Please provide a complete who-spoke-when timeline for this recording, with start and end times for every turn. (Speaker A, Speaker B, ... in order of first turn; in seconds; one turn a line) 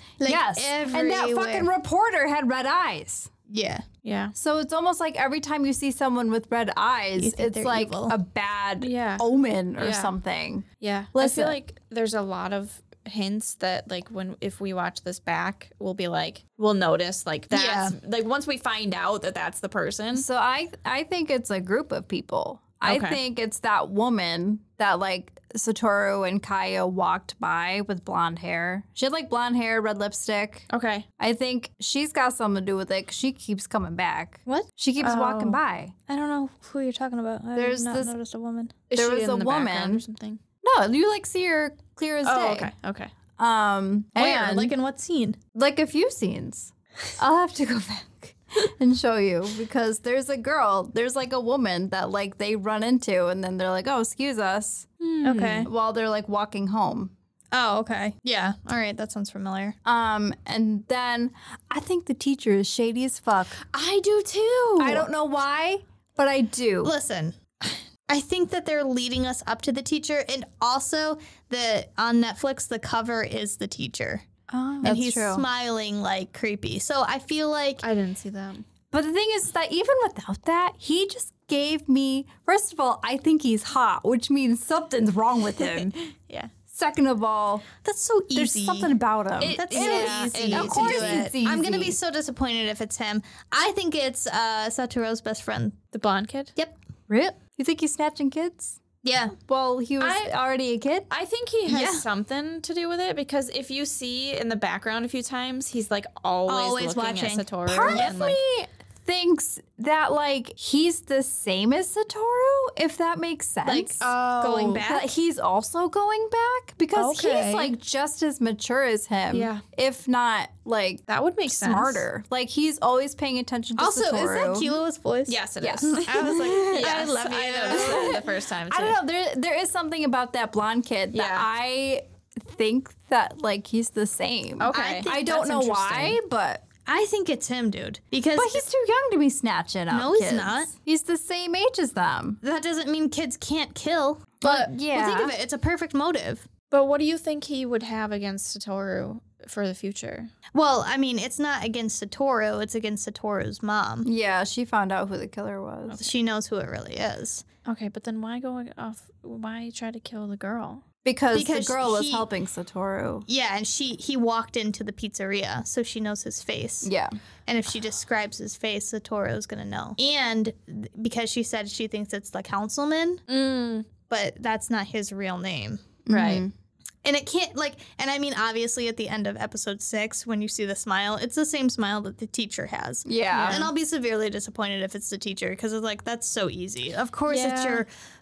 Speaker A: 0.2-1.7
Speaker B: 0.2-3.3
Speaker A: 3.5-3.9
Speaker C: 4.0-4.3
Speaker B: 4.4-11.6
Speaker A: 7.2-8.2
Speaker C: 8.8-10.1
Speaker C: 10.8-20.3
Speaker A: 17.5-18.0
Speaker B: 20.1-30.7
Speaker C: 22.9-23.2
Speaker C: 30.7-31.1
Speaker B: 31.2-35.9
Speaker C: 34.5-35.6
Speaker A: 36.1-38.8
Speaker B: 37.6-38.1
Speaker C: 38.9-40.4
Speaker B: 38.9-40.0
Speaker B: 40.6-42.7
Speaker C: 42.2-43.1
Speaker B: 43.4-44.7
Speaker A: 44.1-45.4
Speaker B: 45.5-54.9
Speaker C: 55.0-55.7
Speaker A: 55.2-55.7
Speaker B: 55.6-57.1
Speaker A: 57.5-59.8
Speaker B: 59.9-63.6
Speaker C: 63.6-65.1
Speaker B: 64.8-66.9
Speaker A: 66.8-74.2
Speaker B: 74.5-75.5
Speaker A: 74.8-77.8
Speaker C: 77.8-78.7
Speaker B: 78.9-86.0
Speaker C: 85.6-86.5
Speaker B: 86.7-87.7
Speaker A: 87.8-89.0
Speaker B: 88.3-92.0
Speaker C: 89.4-91.3
Speaker A: 89.5-95.8
Speaker C: 95.9-96.5
Speaker B: 97.1-98.8
Speaker A: 99.0-99.4
Speaker B: 99.5-101.1
Speaker C: 100.0-100.3
Speaker C: 101.1-108.4
Speaker B: 101.7-102.0
Speaker A: 106.5-108.2
Speaker B: 107.7-114.0
Speaker A: 113.7-115.1
Speaker C: 114.0-114.9
Speaker B: 114.8-124.8
Speaker C: 117.0-117.7
Speaker C: 119.3-119.6
Speaker C: 121.1-122.0
Speaker A: 123.8-128.2
Speaker C: 125.3-129.0
Speaker B: 125.6-136.7
Speaker C: 131.1-131.5
Speaker C: 134.6-136.2
Speaker A: 134.7-135.2
Speaker A: 136.9-138.6
Speaker B: 138.4-142.4
Speaker A: 139.9-140.7
Speaker A: 142.4-146.5
Speaker B: 144.4-145.3
Speaker C: 146.7-150.3
Speaker A: 150.5-154.1
Speaker B: 154.0-156.1
Speaker A: 156.0-157.4
Speaker C: 157.7-160.8
Speaker B: 161.0-163.3
Speaker A: 161.3-162.3
Speaker A: 163.3-166.9
Speaker B: 166.8-167.1
Speaker A: 167.5-173.2
Speaker C: 173.3-173.9
Speaker A: 174.1-175.9
Speaker C: 176.1-176.4
Speaker B: 176.1-176.5
Speaker A: 177.0-187.9
Speaker B: 183.1-183.7
Speaker C: 183.3-183.7
Speaker C: 187.3-187.8